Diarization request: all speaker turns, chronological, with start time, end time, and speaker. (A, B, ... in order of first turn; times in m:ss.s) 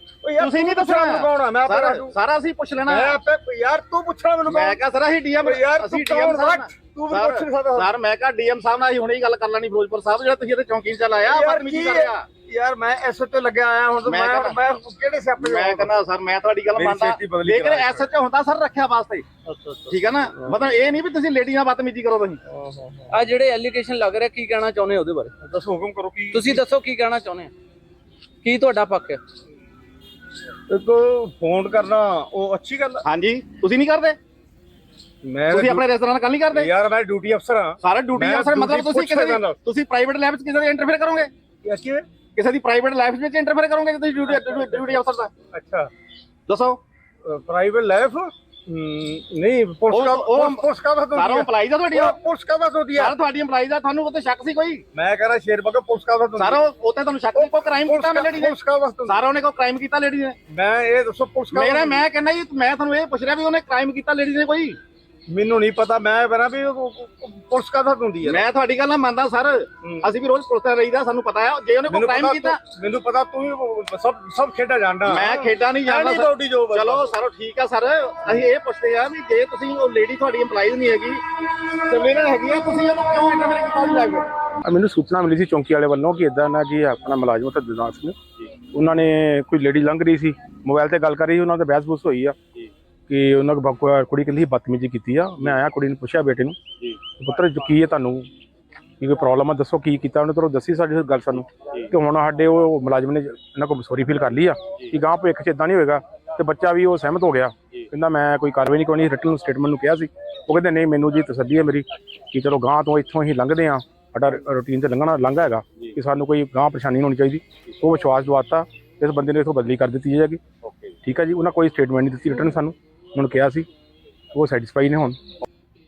0:00.2-0:02.1 A
0:00.4-0:03.2 B
0:02.9-0:04.8 A
0:04.5-0:12.3 B
0:05.4-0:07.9 A
0:11.2-0:16.0 A
0:14.0-0:14.6 B
0:15.4-0:19.2 B
0:16.8-0:18.1 A
0:19.5-0:20.0 C
0:19.9-0:22.4 B
0:22.5-0:23.2 A
0:23.1-0:25.3 C
0:25.4-0:26.6 A
0:26.3-0:27.5 C
0:28.4-0:29.2 C
0:30.7-0:33.0 A
0:33.0-0:34.2 B
0:35.2-0:35.8 A
0:35.5-0:36.7 B
0:36.5-0:39.6 A
0:37.8-0:41.3 B
0:41.6-0:42.0 A
0:42.4-0:45.3 B
0:44.3-0:45.0 A
0:45.5-0:45.9 A
0:46.5-0:46.8 B
0:47.2-0:53.2 A
0:49.9-0:52.2 B
0:53.0-0:54.8 B
0:54.9-0:56.6 A
0:56.4-1:00.4 B
0:57.4-0:59.2 A
1:00.5-1:02.0 A
1:01.5-1:04.8 B
1:05.3-1:08.4 A
1:08.2-1:12.6 B
1:09.8-1:10.1 A
1:11.9-1:17.1 A
1:15.0-1:24.3 B
1:24.7-1:28.2 D
1:28.7-1:32.4 D
1:33.1-1:36.6 D
1:37.2-1:38.3 D
1:39.0-2:00.4 D
2:00.6-2:00.9 A
2:01.0-2:03.7 D
2:04.3-2:05.2 D